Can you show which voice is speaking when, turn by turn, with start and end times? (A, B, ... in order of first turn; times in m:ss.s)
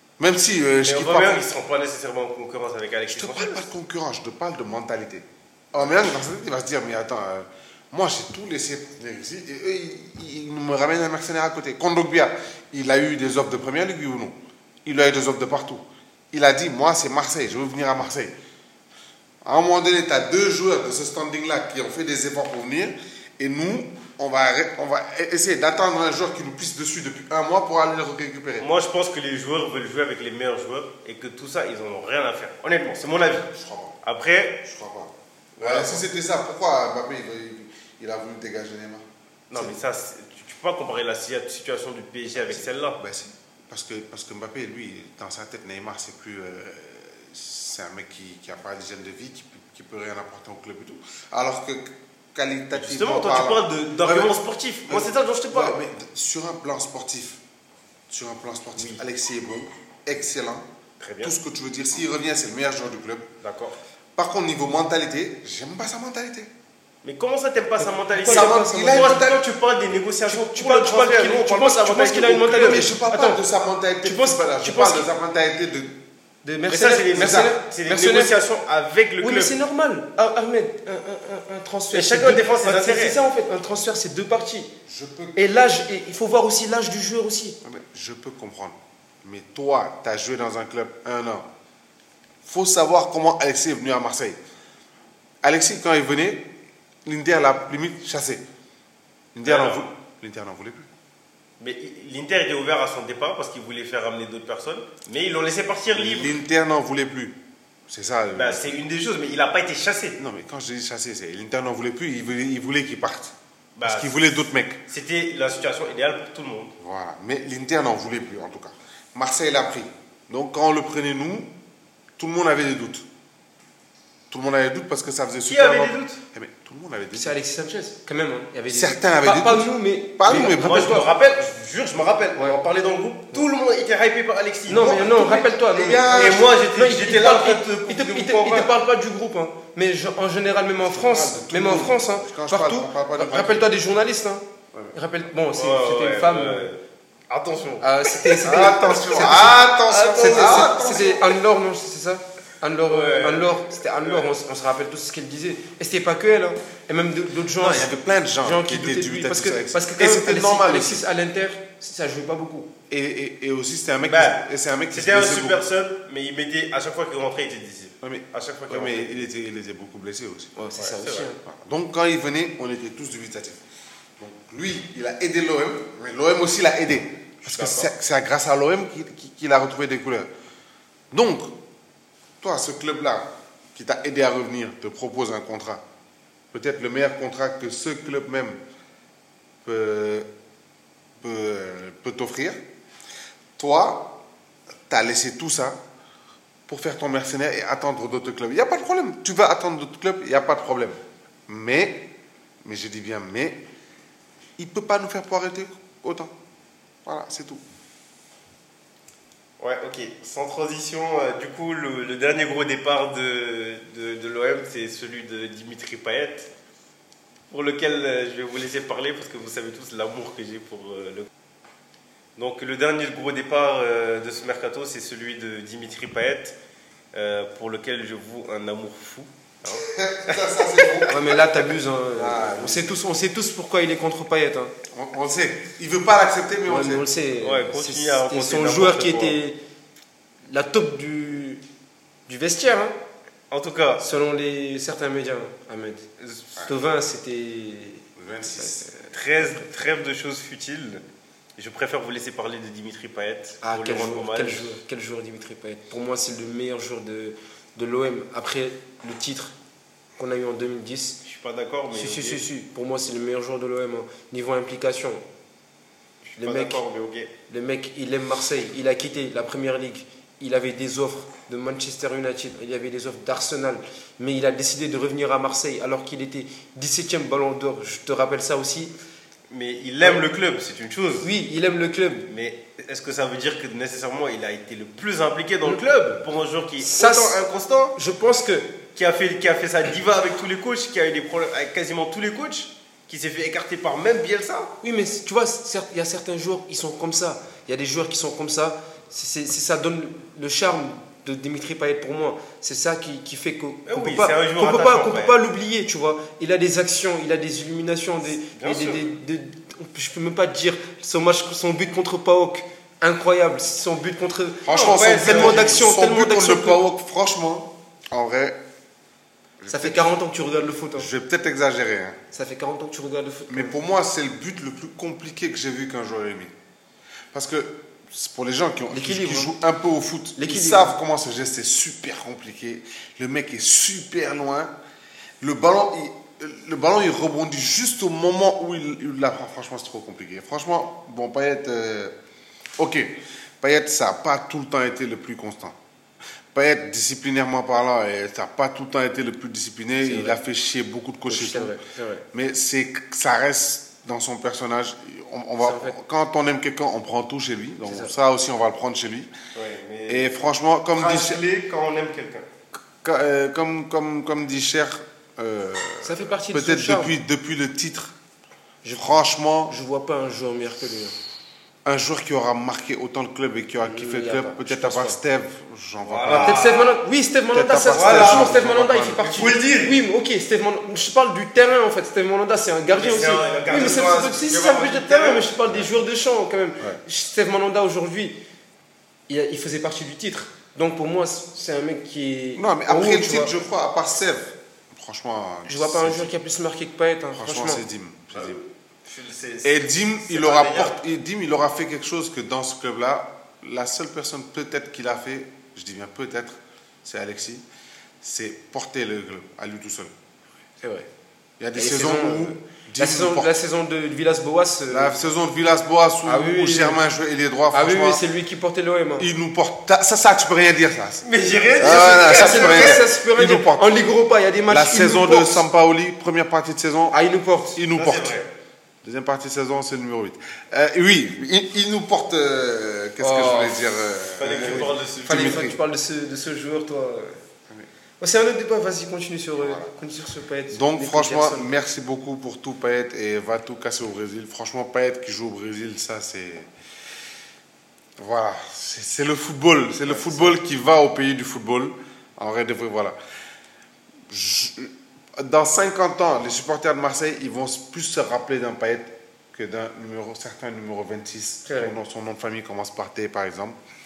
0:00.2-0:01.4 A
0:00.8-0:03.7 B
0:03.1-0:18.3 A
0:19.4-0:28.7 A
0:28.6-0:33.5 B
0:33.5-0:34.0 A
0:34.0-0:34.6 B
0:34.6-0:39.8 A
0:35.6-0:36.0 B
0:39.5-0:43.0 B
0:42.4-0:57.4 A
0:52.7-0:55.8 B
0:58.1-1:00.7 A
1:01.0-1:01.4 B
1:01.2-1:03.3 A
1:03.4-1:03.8 B
1:04.2-1:06.5 A
1:07.0-1:12.9 B
1:07.8-1:09.2 C
1:08.3-1:09.5 A
1:10.3-1:13.4 C
1:12.6-1:16.0 A
1:14.0-1:15.1 C
1:16.4-1:18.4 C
1:16.7-1:19.6 B
1:17.2-1:17.5 A
1:19.2-1:24.7 C
1:21.9-1:23.2 B
1:24.9-1:25.4 A
1:25.4-1:27.6 C
1:27.6-1:31.5 A
1:32.4-1:34.4 A
1:35.4-1:36.5 A
1:37.0-1:38.4 A
1:39.3-1:40.9 A
1:39.4-1:39.9 B
1:41.6-1:46.4 B
1:45.9-1:47.4 A
1:47.9-1:48.8 A
1:48.4-1:50.2 B
1:50.2-1:54.8 A
1:53.8-1:54.2 B
1:54.9-1:56.8 B
1:56.8-2:01.5 A
2:02.2-2:03.1 A
2:04.3-2:07.4 A
2:05.4-2:06.2 B
2:07.1-2:11.1 C
2:08.7-2:11.1 A
2:10.3-2:15.1 B
2:14.7-2:26.7 C
2:14.7-2:16.6 A
2:16.1-2:18.7 B
2:20.8-2:23.7 A
2:25.6-2:30.8 B
2:27.8-2:42.7 C
2:28.4-2:31.4 A
2:32.9-2:34.3 B
2:37.6-2:41.0 A
2:42.9-2:45.6 A
2:44.1-2:49.2 B
2:48.0-2:50.5 A
2:50.6-2:51.4 C
2:50.8-2:51.3 B
2:51.4-2:53.6 A
2:54.2-3:00.3 A
2:57.4-2:57.9 B
3:01.1-3:01.6 A
3:02.4-3:05.8 A
3:06.5-3:08.6 A
3:09.6-3:10.3 A
3:11.2-3:12.6 A
3:13.6-3:14.2 A
3:14.9-3:15.8 A
3:16.7-3:22.1 A
3:22.6-3:23.6 A
3:24.6-3:26.3 A
3:27.0-3:27.6 A
3:29.6-3:36.5 B
3:37.5-3:41.3 B
3:42.4-3:46.6 B
3:47.1-3:51.7 B
3:49.7-3:51.2 A
3:51.1-3:54.7 C
3:52.1-3:53.0 A
3:54.9-3:57.1 A
3:56.7-3:59.6 C
3:57.4-3:59.4 B
4:00.5-4:01.6 C
4:02.3-4:03.0 C
4:03.5-4:04.0 B
4:04.0-4:06.1 C
4:06.2-4:06.5 B
4:06.6-4:08.0 C
4:08.2-4:08.9 A
4:08.6-4:09.1 C
4:09.1-4:11.0 B
4:11.6-4:14.8 B
4:13.6-4:19.6 C
4:20.2-4:21.2 C
4:21.2-4:22.4 B
4:21.9-4:25.2 C
4:26.2-4:27.3 B
4:26.4-4:26.8 C
4:27.5-4:38.9 C
4:39.5-4:41.3 B
4:41.2-4:42.3 C
4:42.3-4:48.0 B
4:46.8-4:47.4 C
4:48.0-4:48.8 C
4:49.0-4:54.7 B
4:54.8-5:16.8 C
5:03.9-5:05.4 B
5:08.6-5:09.1 B
5:14.6-5:18.6 A
5:14.7-5:15.8 B
5:19.6-5:20.2 A
5:19.7-5:21.1 C
5:21.0-5:22.2 A
5:22.3-5:23.8 C
5:23.5-5:26.5 A
5:27.3-5:34.7 A
5:28.9-5:29.6 C
5:30.4-5:31.0 C
5:35.4-5:42.2 A
5:42.8-5:45.8 A
5:46.5-5:59.3 A
5:50.0-5:50.4 C
5:51.3-5:52.2 C
5:55.6-5:56.0 C
5:57.8-5:58.1 C
5:59.5-6:00.4 B
6:00.1-6:01.4 A
6:00.9-6:02.4 B
6:03.0-6:08.1 A
6:06.0-6:07.1 C
6:08.8-6:11.2 C
6:08.9-6:09.7 A
6:11.8-6:16.6 A
6:13.8-6:15.2 C
6:16.0-6:17.0 B
6:16.3-6:28.4 C
6:17.5-6:19.3 A
6:17.9-6:18.6 B
6:19.2-6:20.0 B
6:22.9-6:25.5 B
6:29.3-6:33.5 C
6:32.6-6:36.3 A
6:35.7-6:37.8 C
6:37.4-6:38.6 A
6:38.3-6:41.0 B
6:39.6-6:47.6 A
6:48.2-6:50.1 A
6:50.8-6:51.1 C
6:51.6-6:53.6 A
6:51.8-6:55.1 C
6:54.9-6:58.2 A
6:56.2-6:57.0 C
6:57.7-6:59.3 C
6:59.2-7:01.3 A
7:01.2-7:03.0 B
7:01.8-7:05.6 C
7:01.8-7:04.0 A
7:04.7-7:07.2 A
7:07.1-7:07.8 C
7:07.7-7:08.4 A
7:07.9-7:08.5 B
7:09.0-7:15.8 A
7:13.2-7:13.8 C
7:14.4-7:15.7 B
7:15.2-7:17.4 C
7:18.2-7:21.7 C
7:19.6-7:20.0 A
7:20.7-7:26.7 A
7:28.2-7:33.2 A
7:30.1-7:30.6 C
7:34.3-7:43.8 A
7:41.7-7:42.0 C